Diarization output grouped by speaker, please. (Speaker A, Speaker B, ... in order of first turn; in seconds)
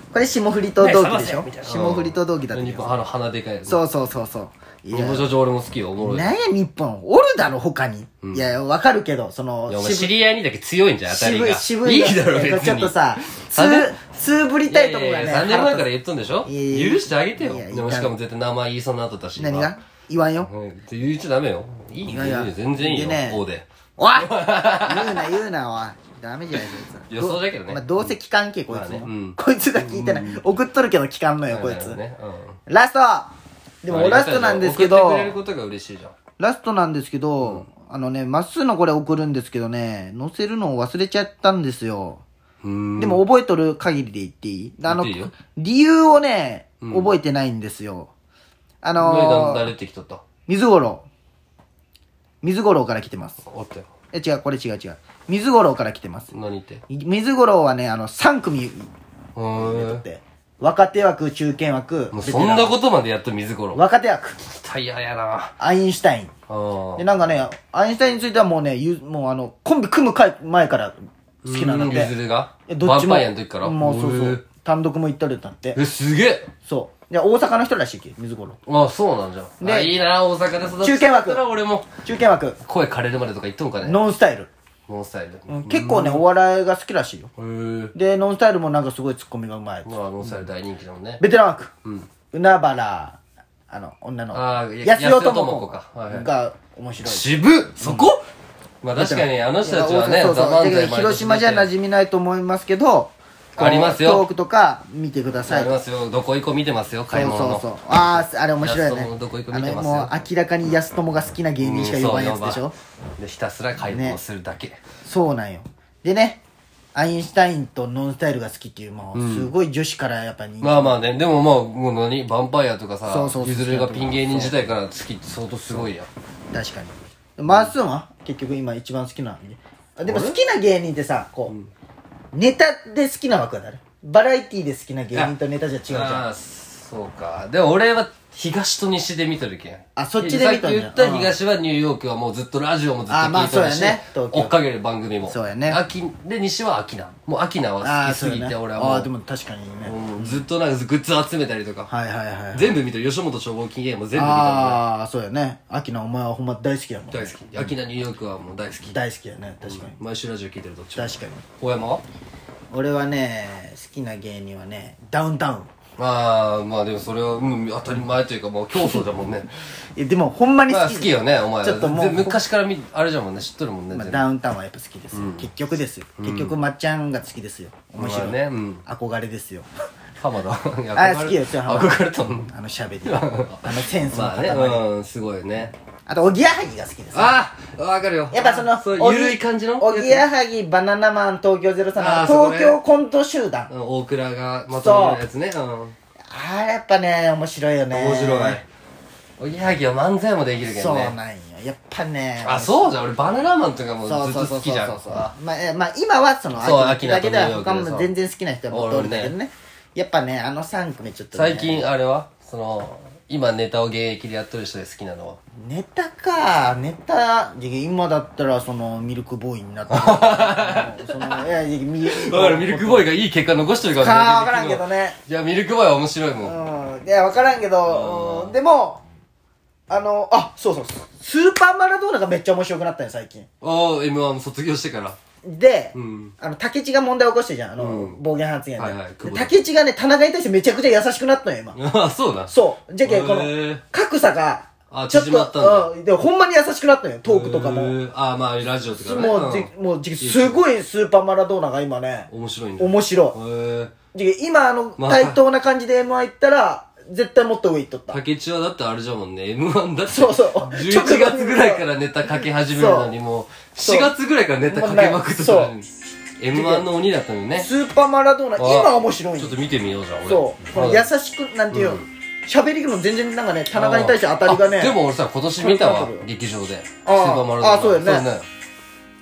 Speaker A: 0.1-3.0, 3.7-5.3, 6.0-10.1, 11.1-15.9, 16.4-18.1, 19.4-20.5, 22.1-23.4, 24.0-32.0, 32.7-35.4, 36.4-42.2, 43.0-48.1, 48.8-49.7, 50.5-51.1, 52.4-53.4, 54.1-56.3, 56.9-58.9, 59.5-62.8, 63.7-64.4, 65.6-66.3, 67.0-72.1, 72.7-75.8, 76.7-78.6, 79.6-80.0, 80.8-81.4, 82.0-82.6, 83.8-84.5, 85.5-87.3, 88.0-90.4, 91.2-91.7, 92.3-93.2, 93.7-98.1, 99.0-105.8, 107.1-112.7, 113.9-114.2, 115.0-116.4, 117.0-121.0, 123.0-124.7, 126.5-131.6, 132.3-136.3, 140.0-141.3, 143.1-144.5, 145.3-145.8, 147.8-150.4, 151.9-152.7, 154.1-157.8, 158.9-160.0, 161.0-161.4, 162.7-165.7, 168.8-169.0, 170.0-172.4, 173.9-179.7, 180.9-184.9, 186.1-187.4, 188.3-193.7, 194.7-195.2, 196.3-198.6, 200.7-202.9, 204.0-211.9, 215.6-223.1, 224.0-225.2, 226.4-229.0, 229.9-233.5, 235.4-241.8, 242.5-247.9, 248.9-253.4, 254.2-258.2, 260.1-261.9, 262.6-263.1, 263.8-264.1, 264.6-265.7, 266.5-266.9, 267.6-269.6, 270.2-275.0, 275.6-276.3, 277.1-278.3
Speaker B: 0.8-3.8, 4.9-6.3, 8.2-8.5, 9.7-14.0, 14.7-19.7, 20.4-25.4, 27.1-28.1, 28.7-30.6, 31.5-32.6, 33.9-36.1, 42.6-43.2, 44.9-45.3, 46.8-47.1, 49.0-50.2, 53.4-53.9, 56.3-56.8, 59.4-60.0, 62.1-63.8, 64.4-65.5, 66.5-67.1, 71.4-74.4, 75.8-76.5, 78.7-81.9, 82.6-84.0, 84.9-86.2, 87.4-87.9, 89.8-91.2, 91.8-92.1, 94.3-96.3, 97.0-98.2, 98.8-101.7, 103.6-104.3, 105.5-110.2, 111.6-112.7, 113.2-114.8, 119.2-119.5, 120.6-126.1, 127.5-127.7, 130.1-130.4, 135.9-149.1, 149.9-151.9, 152.5-154.8, 157.1-159.0, 159.7-162.0, 166.0-169.5, 170.7-174.3, 175.1-175.5, 176.2-176.5, 178.0-178.8, 180.2-182.5, 183.1-185.8, 187.1-190.3, 192.0-192.8, 193.7-195.9, 197.9-198.6, 199.4-201.2, 202.4-205.3, 206.6-208.1, 208.7-209.3, 211.3-215.4, 219.9-221.4, 222.1-226.6, 227.9-228.6, 233.6-235.2, 235.9-236.3, 237.8-238.2, 238.8-239.6, 241.8-243.8, 244.9-245.9, 247.3-250.6, 252.3-253.9, 255.0-255.4, 258.1-267.7, 268.6-271.1, 271.7-272.1, 273.7-278.5